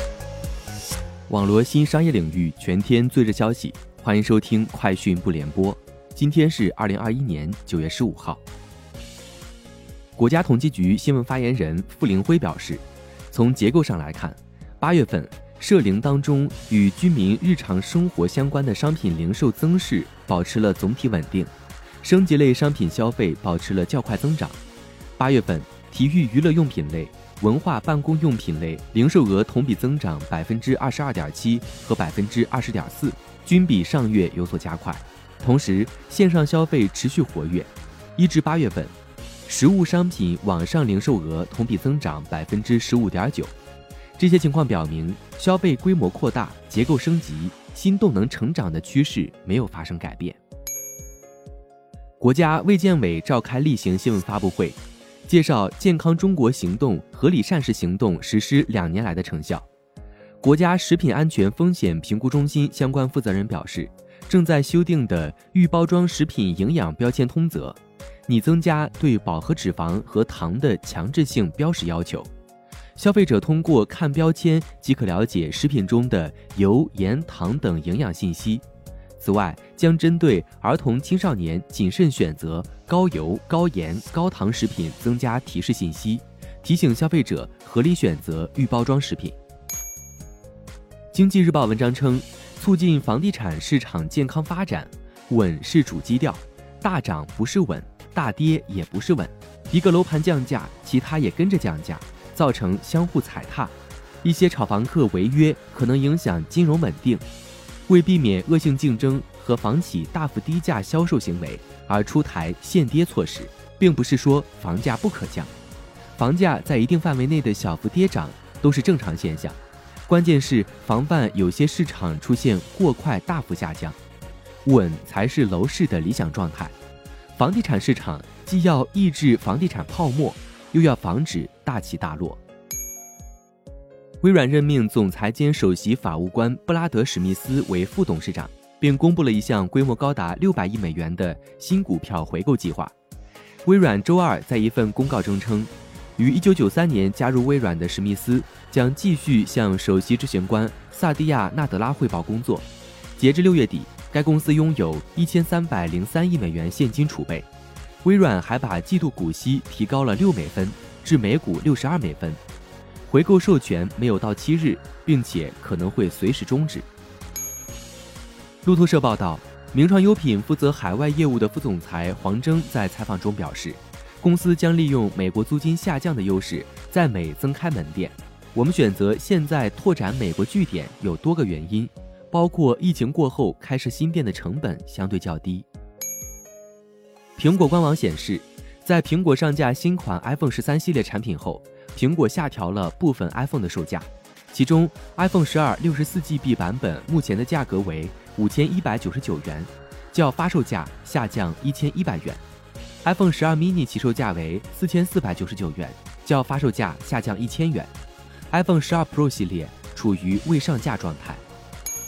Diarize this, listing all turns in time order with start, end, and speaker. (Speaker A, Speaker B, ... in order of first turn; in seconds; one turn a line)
Speaker A: 1.3-8.4
Speaker A: 10.2-24.6
Speaker A: 25.2-38.9
Speaker A: 39.5-43.5
Speaker A: 44.2-50.4
Speaker A: 52.2-59.7
Speaker A: 60.4-72.3
Speaker A: 73.0-78.6
Speaker A: 79.2-89.4
Speaker A: 91.1-107.2
Speaker A: 107.9-115.5
Speaker A: 116.2-124.0
Speaker A: 124.7-126.7
Speaker A: 127.3-132.4
Speaker A: 134.2-142.9
Speaker A: 143.7-157.5
Speaker A: 158.0-162.4
Speaker A: 163.1-166.9
Speaker A: 168.6-185.7
Speaker A: 187.4-202.4
Speaker A: 203.0-207.9
Speaker A: 208.5-211.4